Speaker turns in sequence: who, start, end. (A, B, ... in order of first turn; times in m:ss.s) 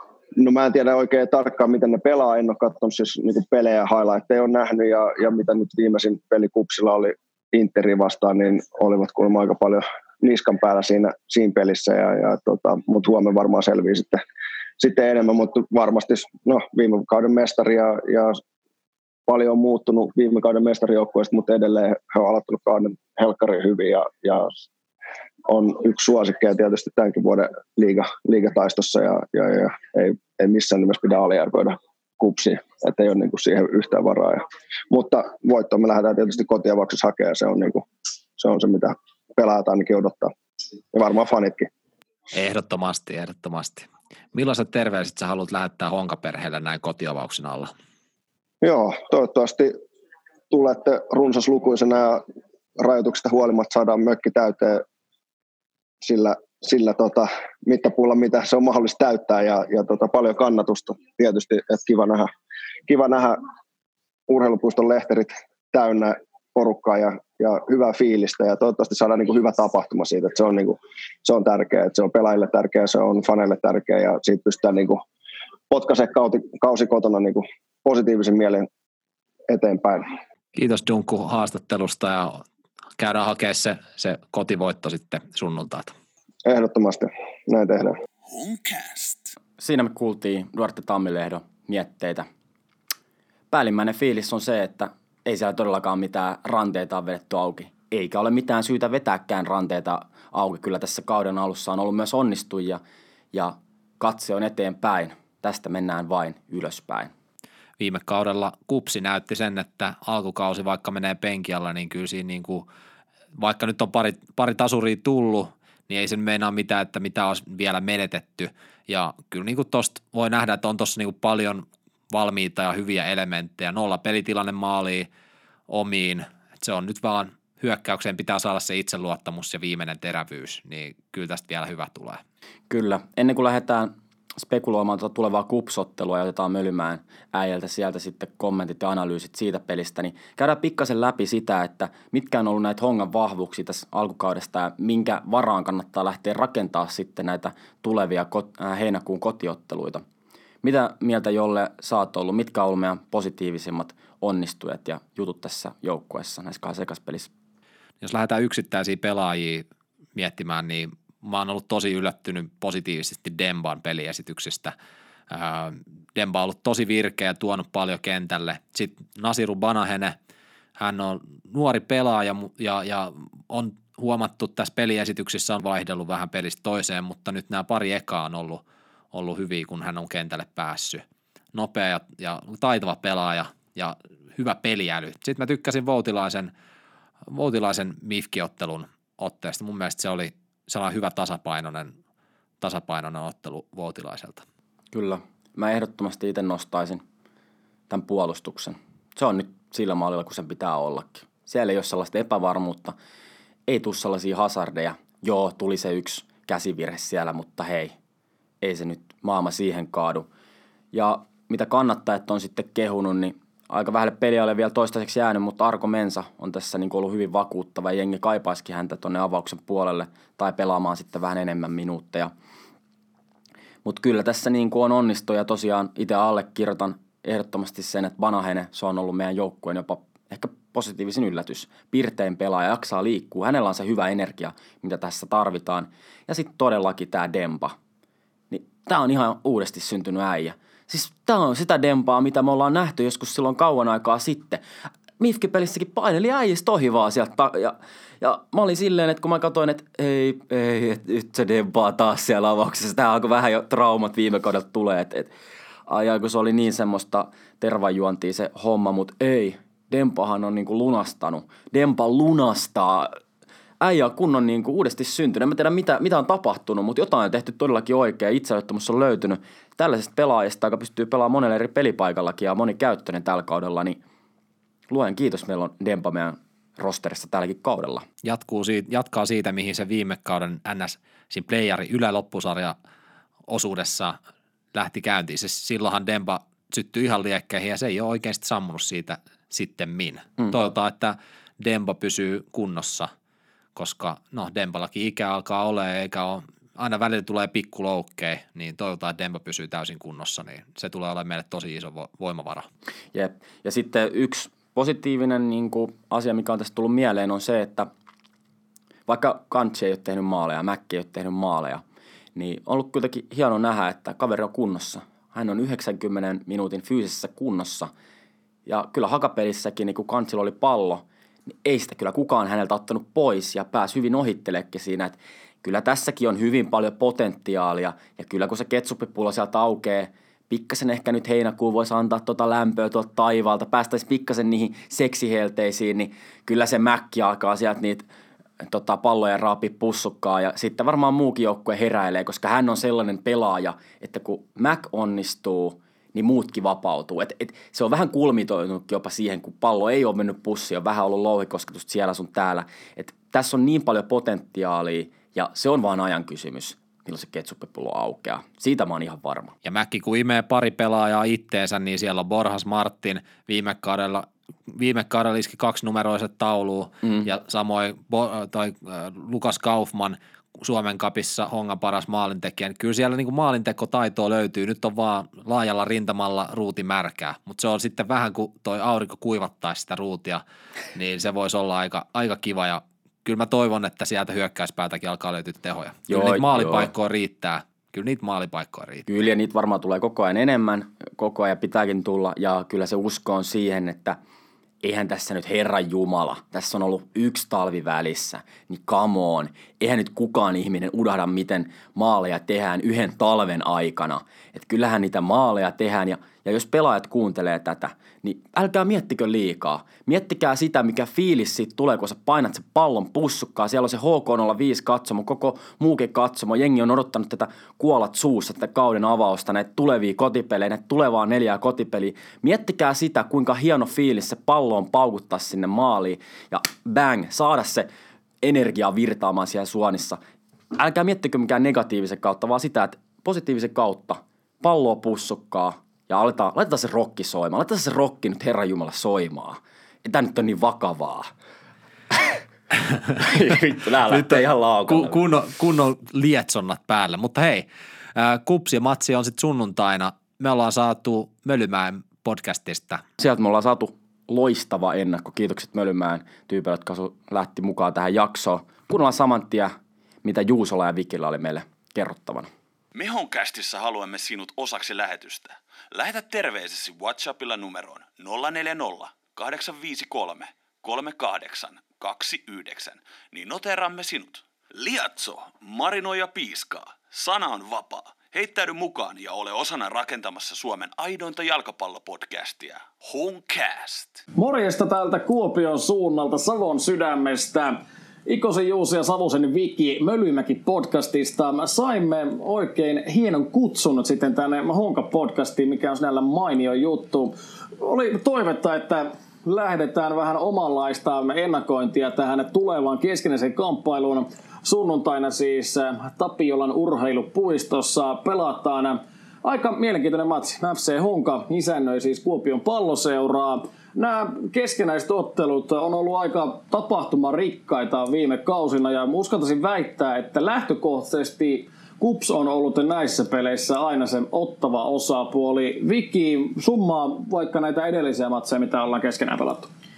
0:00.4-0:14.2 A
0:14.8-0:18.4 A
0:19.3-0:24.5 A
0:25.5-0:37.9 A
0:38.4-0:40.3 A
0:40.9-0:41.7 A
0:42.3-0:47.7 B
0:48.6-0:49.7 A
0:50.5-0:52.2 A
0:52.8-0:54.8 A
0:56.0-1:02.3 A
1:02.9-1:03.4 A
1:04.3-1:15.0 A
1:15.7-1:18.7 A
1:19.5-1:20.0 A
1:20.6-1:22.4 B
1:23.0-1:25.9 B
1:26.4-1:28.0 A
1:28.2-1:29.4 C
1:29.6-1:32.3 D
1:33.5-1:42.8 D
1:43.3-1:47.1 D
1:47.8-1:52.7 B
1:53.4-2:05.1 B
2:05.7-2:12.2 B
2:12.7-2:30.0 D
2:30.6-2:37.3 D
2:38.0-2:44.7 B
2:45.3-2:50.2 B
2:50.8-2:58.6 B
2:59.1-3:01.0 B
3:01.5-3:06.5 B
3:07.3-3:11.9 B
3:12.6-3:14.4 B
3:14.9-3:17.0 D
3:17.9-3:23.0 D
3:23.7-3:27.9 D
3:28.6-3:30.3 D
3:30.9-3:42.3 D
3:43.8-3:57.8 D
3:58.5-4:04.6 D
4:05.2-4:15.3 D
4:15.9-4:23.2 D
4:23.8-4:34.0 D
4:34.9-4:38.1 D
4:38.2-4:42.8 B
4:43.5-4:44.2 B
4:44.7-4:53.1 B
4:53.8-5:02.7 B
5:03.1-5:07.9 D
5:09.1-5:11.8 D
5:12.4-5:17.9 D
5:18.7-5:21.0 D
5:21.6-5:38.0 D
5:38.6-5:59.5 D
5:59.6-6:20.4 B
6:07.0-6:07.3 D
6:21.0-6:29.1 B
6:26.1-6:26.9 D
6:29.1-6:34.2 D
6:34.8-7:07.9 D
7:08.4-7:10.2 D
7:10.8-7:21.3 D
7:22.1-7:22.4 D
7:23.1-7:25.2 D
7:24.1-7:33.0 B
7:33.2-7:39.7 D
7:40.2-7:42.5 D
7:42.9-8:04.2 C
8:04.4-8:49.7 E